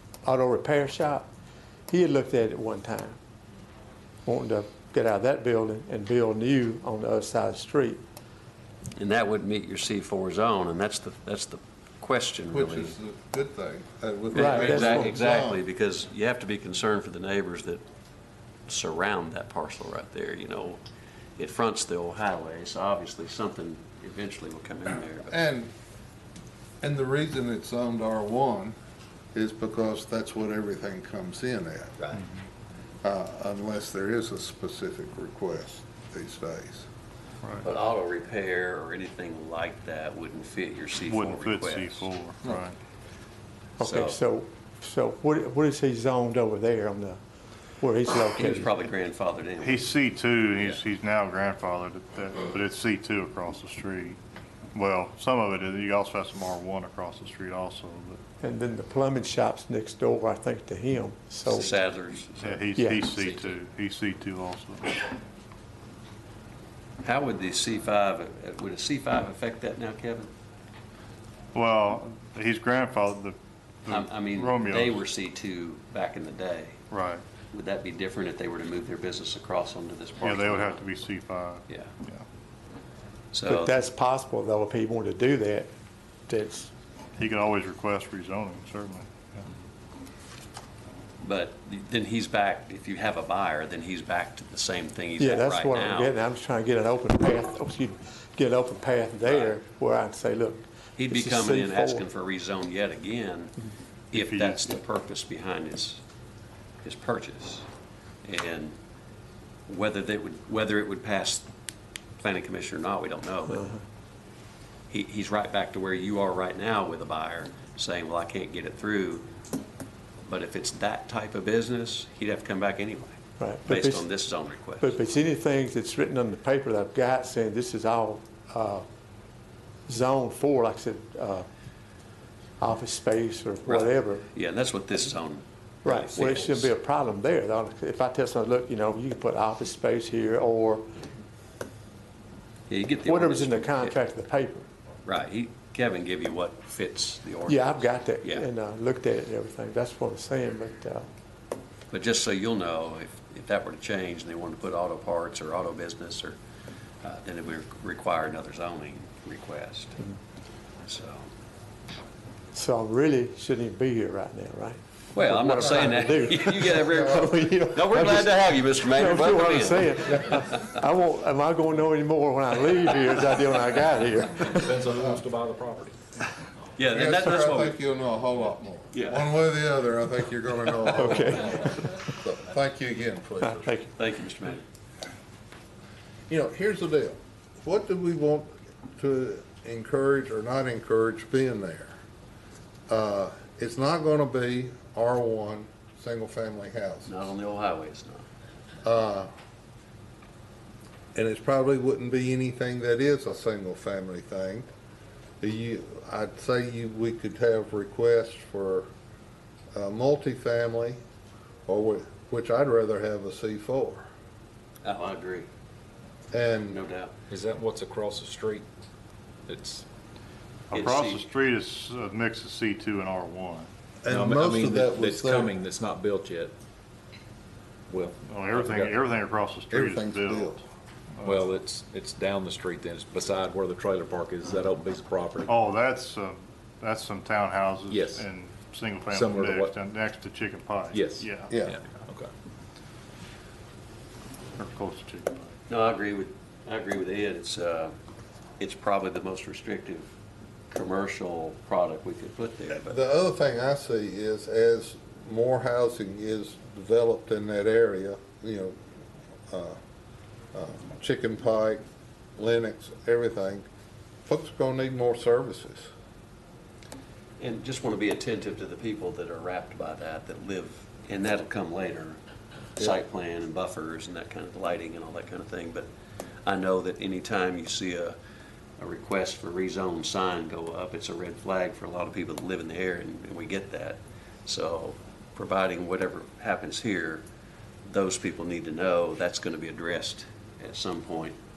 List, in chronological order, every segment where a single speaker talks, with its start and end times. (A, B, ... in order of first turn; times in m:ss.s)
0:00.2-0:01.3 A
0:01.9-0:03.2 A
0:04.3-0:08.0 A
0:09.0-0:12.9 B
0:12.5-0:15.6 C
0:14.3-0:17.8 B
0:14.4-0:15.2 A
0:18.7-0:20.8 B
0:21.4-0:25.4 B
0:25.3-0:25.7 C
0:26.8-0:28.8 C
0:29.3-0:32.0 C
0:33.0-0:36.9 C
0:37.6-0:42.0 B
0:41.0-0:42.8 D
0:43.8-0:44.2 B
0:43.8-0:47.2 A
0:47.8-0:48.7 A
0:48.3-0:49.9 B
0:49.6-0:54.2 D
0:54.8-0:58.2 D
0:58.4-1:01.7 A
1:01.5-1:03.4 B
1:02.4-1:05.0 D
1:02.8-1:03.0 A
1:07.0-1:10.3 B
1:11.5-1:15.0 D
1:13.9-1:16.8 B
1:16.9-1:17.2 D
1:17.5-1:20.8 B
1:20.2-1:22.2 D
1:23.3-1:23.8 B
1:23.5-1:25.7 A
1:26.3-1:26.7 A
1:27.2-1:29.5 D
1:31.2-1:36.1 B
1:35.2-1:42.0 A
1:39.2-1:39.5 B
1:41.0-1:43.6 B
1:44.1-1:46.0 B
1:44.1-1:44.8 D
1:46.8-1:47.7 B
1:48.2-1:48.7 B
1:49.7-1:51.5 B
1:52.2-1:53.7 B
1:53.5-1:53.8 A
1:54.9-1:59.3 B
2:00.2-2:04.9 B
2:03.4-2:04.1 A
2:04.8-2:08.8 A
2:09.9-2:11.5 A
2:12.6-2:14.2 A
2:13.7-2:16.7 B
2:15.8-2:20.9 A
2:22.7-2:24.0 B
2:23.1-2:24.7 A
2:25.1-2:28.5 B
2:27.5-2:31.1 A
2:31.9-2:36.4 B
2:37.0-2:40.0 B
2:40.8-2:41.3 B
2:42.5-2:54.8 A
2:45.2-2:50.7 B
2:45.6-2:45.9 C
2:54.5-2:56.0 E
2:56.8-2:57.8 B
2:56.9-3:03.8 C
2:58.9-2:59.3 B
3:00.9-3:01.8 A
3:03.4-3:03.9 A
3:04.0-3:04.6 B
3:06.3-3:11.9 C
3:12.9-3:17.2 C
3:17.1-3:18.3 B
3:18.8-3:19.3 C
3:21.2-3:24.7 C
3:25.4-3:28.9 C
3:29.7-3:31.0 C
3:31.7-3:34.1 C
3:34.8-3:35.5 B
3:36.3-3:36.8 C
3:36.7-3:37.1 B
3:37.3-3:38.7 E
3:39.5-3:39.9 E
3:40.7-3:43.7 D
3:40.7-3:41.2 B
3:44.0-3:45.5 C
3:44.1-3:46.5 E
3:47.9-3:48.9 E
3:48.2-3:50.6 D
3:49.7-3:50.6 C
3:51.2-3:51.5 D
3:51.2-3:55.5 E
3:55.5-4:02.1 D
3:57.9-3:58.3 E
3:59.1-3:59.8 E
4:00.9-4:02.3 E
4:01.5-4:01.8 C
4:04.6-4:05.6 D
4:05.7-4:07.9 B
4:08.6-4:10.1 B
4:10.7-4:13.0 B
4:12.8-4:18.8 C
4:19.5-4:19.8 C
4:20.5-4:21.8 C
4:22.4-4:23.7 C
4:24.3-4:25.9 C
4:27.4-4:32.2 B
4:32.8-4:35.9 B
4:36.4-4:38.2 B
4:38.8-4:47.2 B
4:47.9-4:51.4 B